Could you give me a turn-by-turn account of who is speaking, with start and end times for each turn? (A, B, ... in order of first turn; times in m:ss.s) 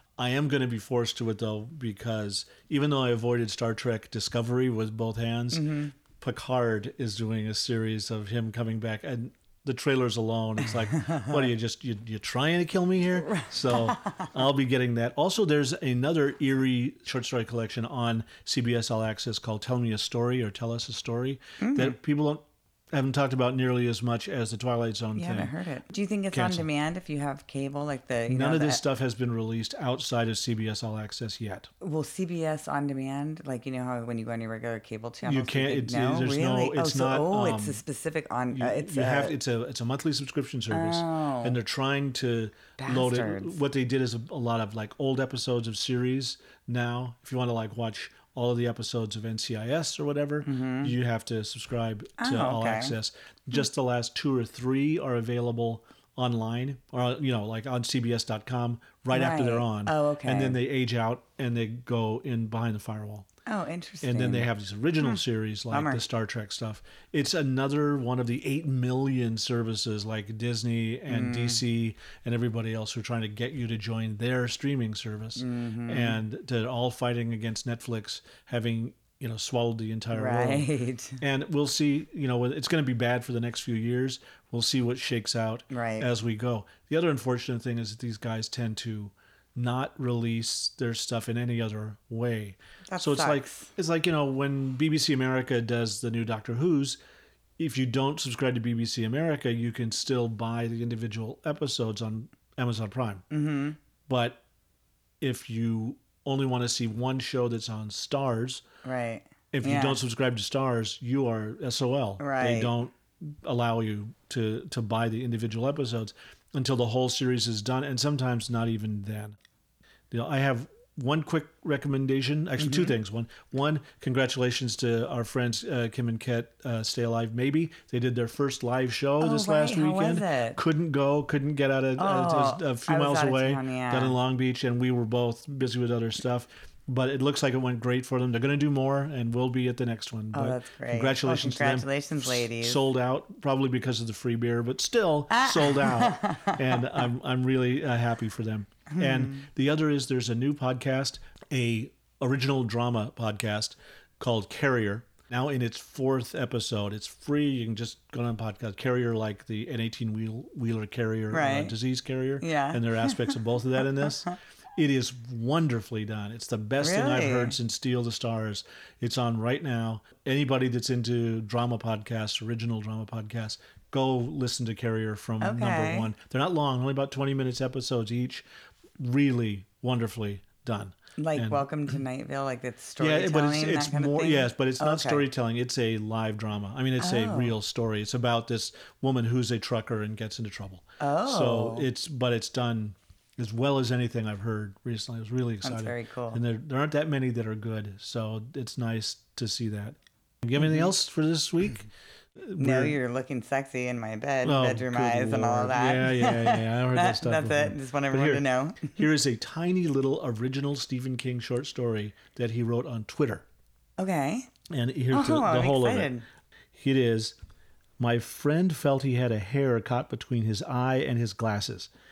0:00.2-0:25.5 A
0:05.5-0:05.9 B
0:10.9-0:11.4 B
0:13.2-0:14.3 B
0:21.6-0:22.0 B
0:25.2-0:28.8 B
0:26.3-0:26.7 A
0:28.3-0:31.7 A
0:31.8-0:39.4 B
0:35.2-0:37.8 A
0:38.5-1:03.3 A
0:40.7-0:41.6 B
0:42.8-0:43.6 B
0:50.4-0:51.0 B
0:52.2-0:53.0 B
0:59.1-1:00.6 B
1:03.5-1:04.5 B
1:04.0-1:20.7 A
1:05.7-1:06.0 B
1:11.1-1:11.6 B
1:15.4-1:16.2 B
1:20.1-1:21.2 B
1:21.2-1:37.0 A
1:25.7-1:26.1 B
1:32.9-1:33.7 B
1:37.6-1:43.2 A
1:43.3-1:43.8 B
1:44.1-1:44.4 A
1:45.2-1:48.6 A
1:48.8-1:50.0 B
1:49.5-1:59.4 A
1:52.2-1:52.7 B
2:00.1-2:58.5 A
2:02.6-2:03.0 B
2:09.2-2:10.6 B
2:12.0-2:14.2 B
2:20.3-2:22.8 B
2:25.3-2:27.0 B
2:28.9-2:29.4 B
2:41.3-2:41.7 B
2:42.4-2:44.3 B
2:46.8-2:47.6 B
2:55.4-2:56.1 B
2:59.0-3:01.7 A
3:01.2-3:05.3 B
3:03.0-3:21.9 A
3:07.0-3:07.6 B
3:11.0-3:11.9 B
3:15.6-3:16.4 B
3:20.6-3:20.9 B
3:22.4-3:23.0 A
3:22.6-3:29.0 B
3:24.4-3:33.4 A
3:34.0-3:34.5 B
3:34.7-3:36.1 A
3:35.1-3:36.2 B
3:36.7-3:37.4 A
3:38.0-3:41.9 A